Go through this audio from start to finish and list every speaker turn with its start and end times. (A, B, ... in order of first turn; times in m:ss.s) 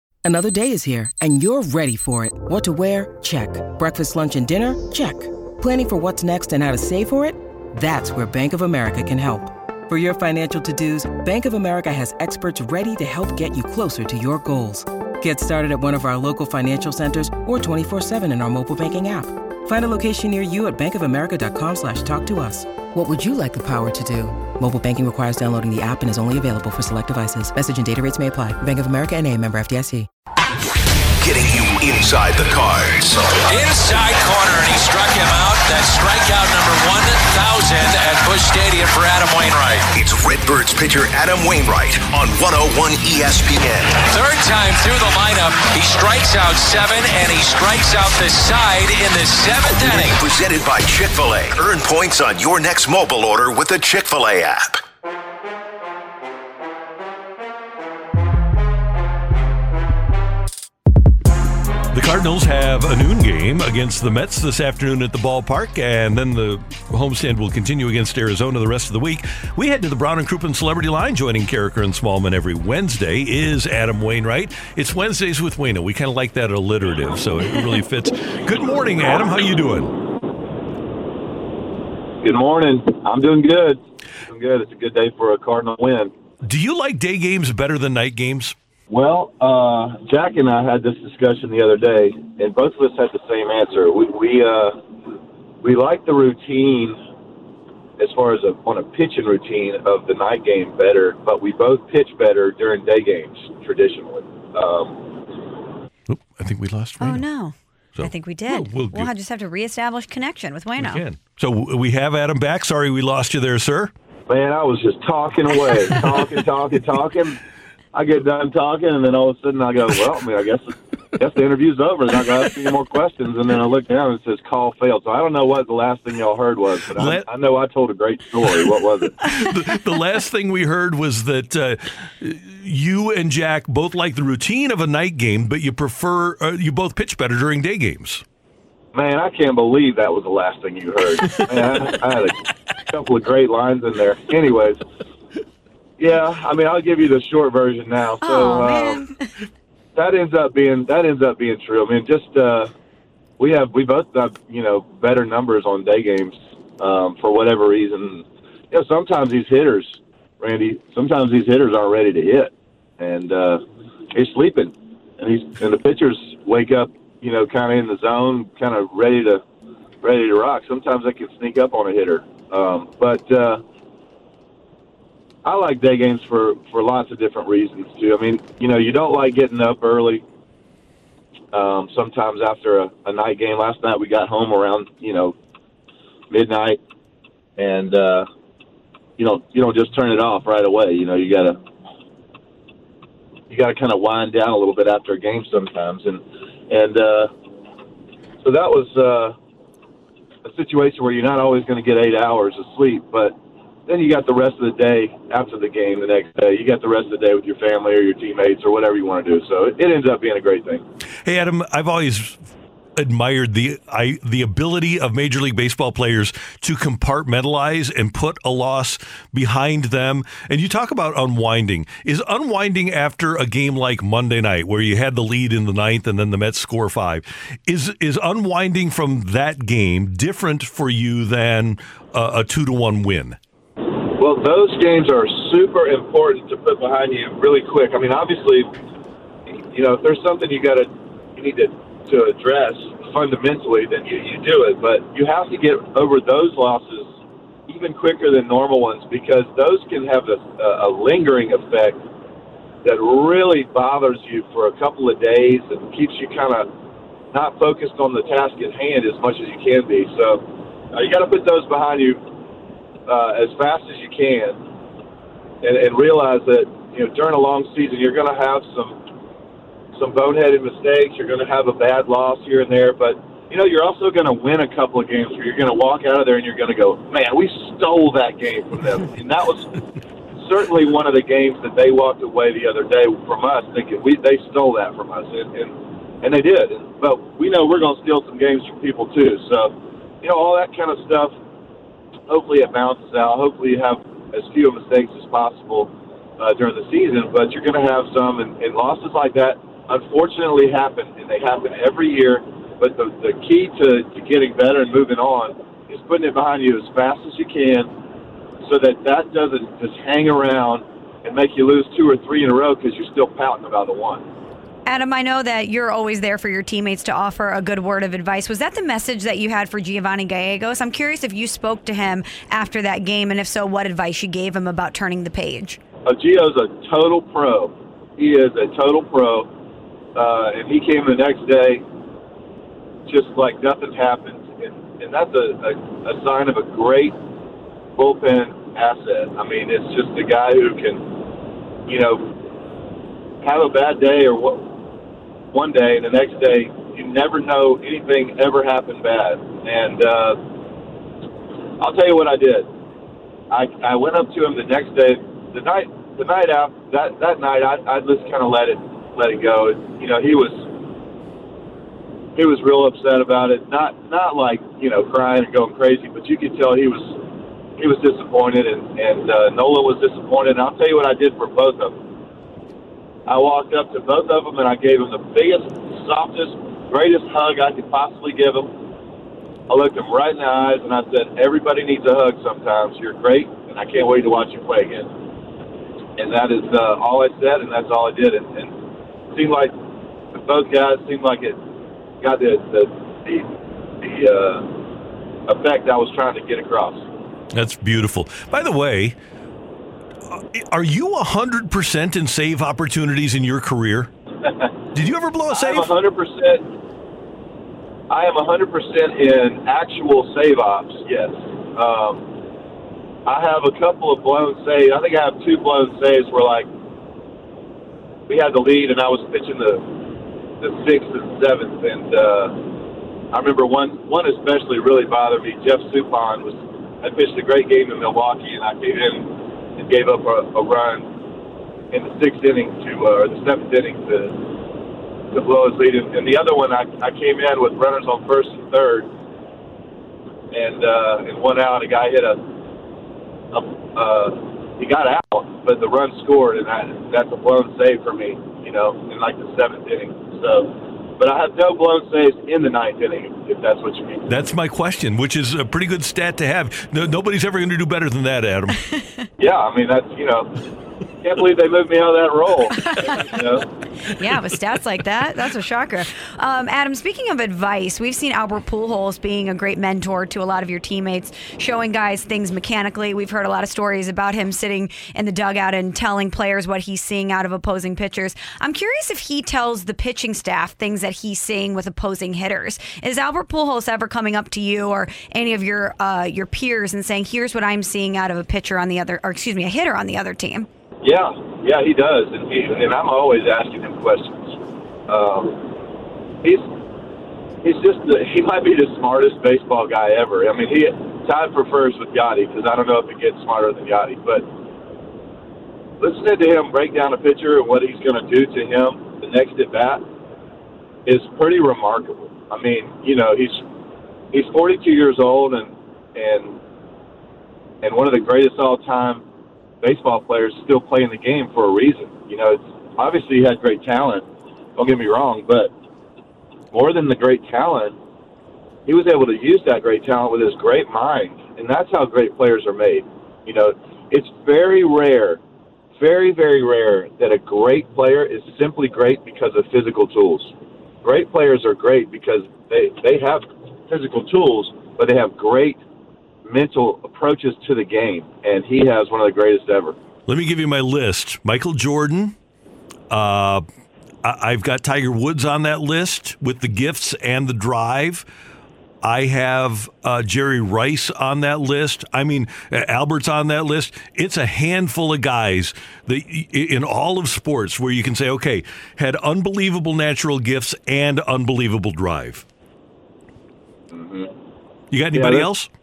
0:00.3-0:30.0 A
0:31.2-0:33.5 B
0:33.4-0:39.9 C
0:39.9-0:44.1 B
0:44.0-0:50.2 C
0:49.6-0:54.8 B
1:01.9-1:20.0 D
1:22.2-1:26.1 E
1:26.4-1:28.6 D
1:28.9-1:34.8 E
1:35.6-1:37.0 E
1:38.0-1:45.1 E
1:46.1-1:47.2 D
1:47.0-1:51.0 F
1:48.0-1:49.1 D
1:50.8-1:53.9 D
1:54.3-1:57.4 E
1:57.9-2:09.2 E
2:06.9-2:07.3 D
2:09.2-2:18.2 D
2:18.9-2:22.4 E
2:21.2-2:21.8 D
2:22.9-2:24.8 E
2:26.0-2:29.0 E
2:28.2-2:29.3 F
2:30.0-2:32.7 E
2:33.4-2:49.4 E
2:50.0-2:53.6 E
2:55.4-3:00.2 E
3:01.5-3:05.4 E
3:06.3-3:06.8 E
3:07.6-3:08.3 E
3:09.2-3:11.6 E
3:13.5-3:17.3 E
3:18.4-3:19.4 E
3:20.4-3:23.4 E
3:23.9-3:30.8 E
3:31.2-3:32.4 D
3:33.0-3:53.4 D
3:54.0-3:58.7 E
3:59.7-4:07.1 E
4:07.7-4:12.0 E
4:12.8-4:16.7 E
4:17.3-4:22.3 E
4:23.1-4:24.6 E
4:25.6-4:29.1 E
4:30.0-4:39.7 E
4:40.4-4:51.3 E
4:52.3-5:07.9 E
5:08.6-5:14.3 E
5:14.9-5:25.8 F
5:26.0-5:29.5 E
5:30.2-5:31.8 E
5:33.1-5:37.2 E
5:38.0-5:41.2 E
5:41.9-5:42.4 E
5:43.4-5:44.7 E
5:45.5-5:50.4 E
5:51.8-5:52.7 E
5:53.5-6:00.7 E
6:02.4-6:07.2 E
6:07.8-6:12.0 E
6:13.3-6:18.7 E
6:19.7-6:25.1 E
6:26.2-6:28.7 E
6:29.3-6:29.8 E
6:30.4-6:31.6 E
6:32.2-6:33.5 E
6:34.0-6:34.7 E
6:35.5-6:37.1 E
6:37.5-6:39.2 D
6:40.3-6:44.1 D
6:44.4-6:44.8 E
6:44.9-6:45.9 D
6:45.5-6:46.7 E
6:48.1-6:52.3 E
6:53.3-6:56.7 E
6:58.3-7:00.0 E
7:00.6-7:02.7 E
7:03.3-7:11.2 E
7:11.9-7:14.6 E
7:15.3-7:19.1 E
7:20.5-7:22.4 E
7:23.5-7:34.2 E
7:34.3-7:38.8 D
7:39.4-7:40.5 E
7:41.2-7:43.7 E
7:42.8-7:43.4 F
7:44.1-8:10.7 F
8:11.0-8:15.8 E
8:16.4-8:16.7 E
8:17.6-8:24.5 E
8:26.0-8:30.0 E
8:31.1-8:33.6 E
8:34.3-8:36.6 E
8:37.8-8:39.2 E
8:39.8-8:44.2 E
8:44.8-8:45.7 E
8:46.7-8:48.0 E
8:48.9-8:55.4 E
8:56.0-9:05.8 E
9:06.4-9:10.0 E
9:10.3-9:12.4 D
9:13.1-9:13.6 D
9:14.2-9:18.3 D
9:19.0-9:32.4 D
9:33.9-9:34.3 E
9:34.9-9:35.7 D
9:35.1-9:35.5 E